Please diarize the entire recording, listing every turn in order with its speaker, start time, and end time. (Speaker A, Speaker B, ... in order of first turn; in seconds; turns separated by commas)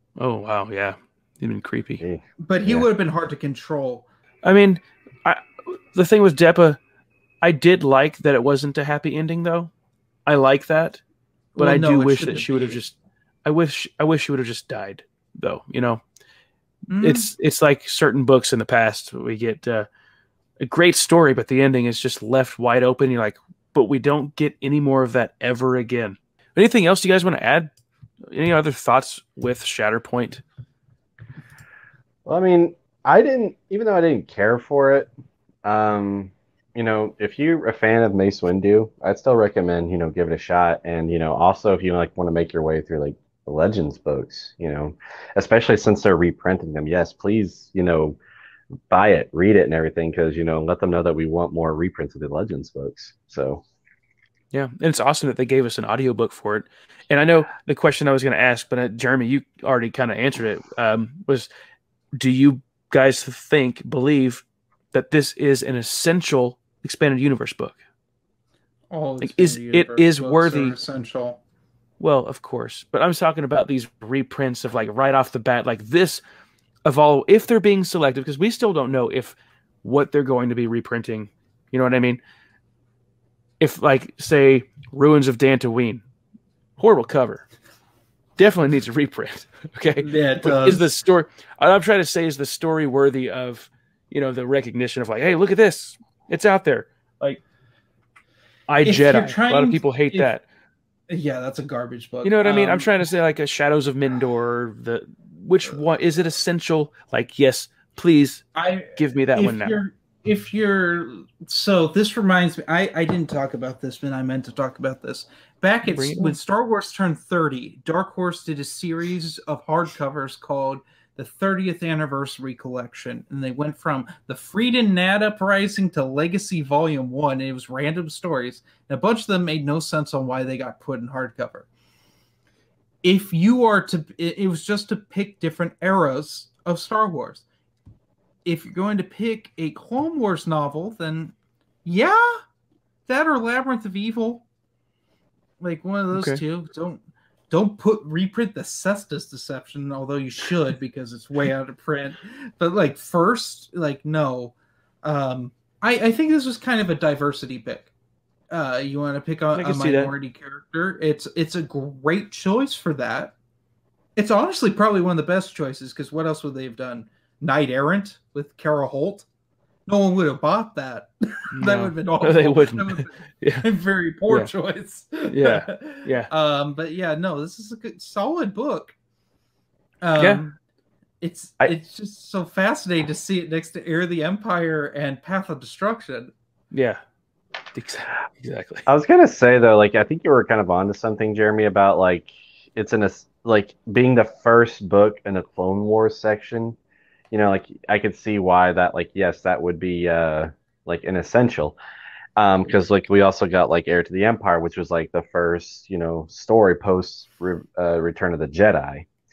Speaker A: 0.2-2.0, Speaker B: 2.0-2.9, Speaker C: 2.4-4.0, Speaker A: 4.4-6.8, Speaker A: 7.4-9.7, Speaker A: 10.2-11.0, Speaker C: 11.5-12.8, Speaker A: 11.6-16.0, Speaker C: 16.9-17.3, Speaker A: 17.0-19.9, Speaker A: 20.6-27.7, Speaker A: 28.3-30.4, Speaker B: 32.2-35.1, Speaker B: 35.6-48.2, Speaker B: 48.9-53.6, Speaker A: 54.5-61.5, Speaker A: 62.1-67.8, Speaker C: 68.9-71.4, Speaker A: 69.2-70.7, Speaker A: 72.0-76.2, Speaker A: 76.8-82.2, Speaker A: 83.6-86.0, Speaker A: 86.8-87.5, Speaker A: 88.4-97.4, Speaker C: 90.0-90.8, Speaker A: 98.7-100.4, Speaker C: 98.8-100.3, Speaker C: 101.1-102.9, Speaker A: 102.2-109.8, Speaker C: 108.5-131.7, Speaker A: 115.9-116.3, Speaker C: 133.0-137.4, Speaker C: 138.4-141.3, Speaker C: 141.8-142.4, Speaker C: 143.1-144.4, Speaker C: 145.6-157.9, Speaker A: 146.1-146.4, Speaker C: 158.5-163.3, Speaker A: 159.5-160.1, Speaker C: 164.2-169.2, Speaker C: 169.9-178.9, Speaker A: 171.5-173.6, Speaker A: 175.3-176.3, Speaker C: 180.0-180.6, Speaker A: 180.2-180.4, Speaker C: 181.2-186.3, Speaker A: 186.7-187.0, Speaker A: 187.7-188.8, Speaker B: 188.9-196.8, Speaker B: 197.3-201.8, Speaker B: 202.4-209.1